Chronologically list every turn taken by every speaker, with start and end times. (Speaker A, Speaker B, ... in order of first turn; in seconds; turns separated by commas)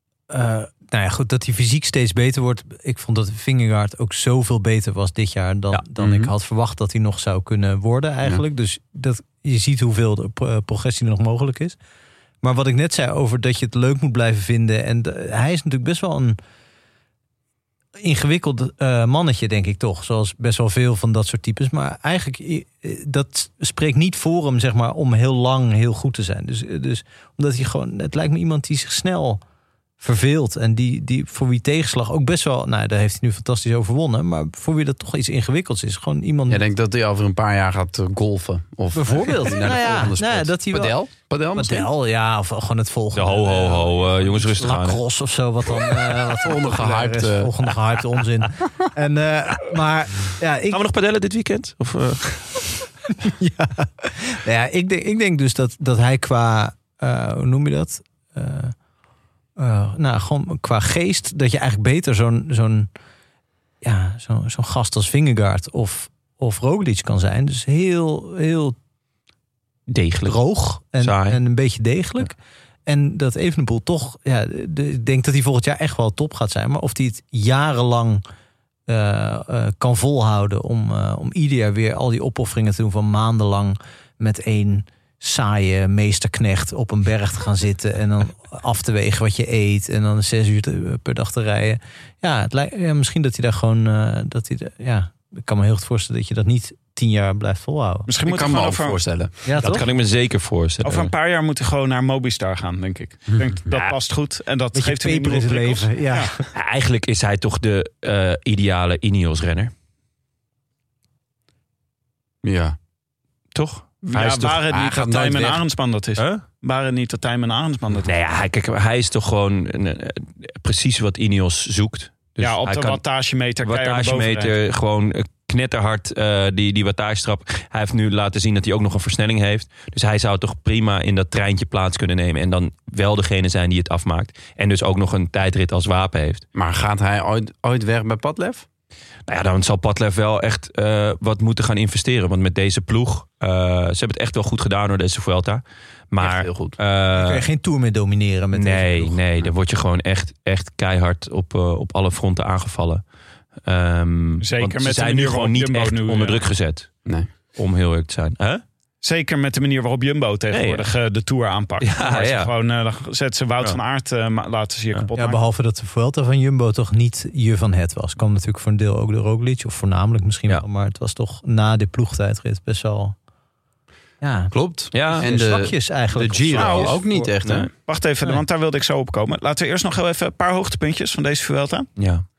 Speaker A: 0.3-11.8, Speaker B: 6.0-6.3, Speaker A: 12.4-16.4, Speaker A: 18.0-29.4, Speaker A: 30.0-36.6, Speaker B: 36.5-41.9, Speaker A: 38.9-41.0, Speaker A: 41.5-50.8, Speaker C: 43.1-45.0, Speaker B: 46.3-47.5, Speaker C: 50.7-52.7, Speaker A: 53.2-58.7, Speaker A: 59.6-62.9, Speaker A: 63.8-68.8, Speaker C: 69.9-70.4, Speaker A: 70.3-78.2, Speaker C: 71.0-71.4, Speaker A: 78.9-98.1, Speaker D: 98.1-99.0, Speaker B: 98.2-99.3, Speaker A: 99.5-99.8, Speaker C: 99.6-101.1, Speaker D: 100.8-106.3, Speaker C: 103.7-104.0, Speaker A: 104.7-106.4, Speaker C: 106.5-109.7, Speaker B: 112.4-112.8, Speaker C: 113.5-114.6, Speaker D: 114.0-118.1, Speaker B: 114.7-115.6, Speaker C: 116.2-116.4, Speaker C: 118.0-123.0, Speaker D: 122.4-124.5, Speaker C: 123.6-136.4, Speaker B: 136.6-138.7, Speaker C: 139.3-147.4, Speaker B: 146.2-146.8, Speaker A: 147.1-149.2, Speaker C: 148.5-153.0, Speaker C: 153.6-156.9, Speaker D: 154.4-156.4, Speaker C: 157.6-158.6, Speaker D: 159.0-165.4, Speaker C: 160.5-160.9, Speaker C: 161.8-162.5, Speaker A: 165.1-173.1, Speaker A: 174.2-177.3, Speaker B: 174.5-177.7, Speaker C: 174.9-175.3, Speaker D: 176.6-177.0, Speaker C: 177.4-177.7, Speaker D: 177.8-181.9, Speaker C: 182.0-182.2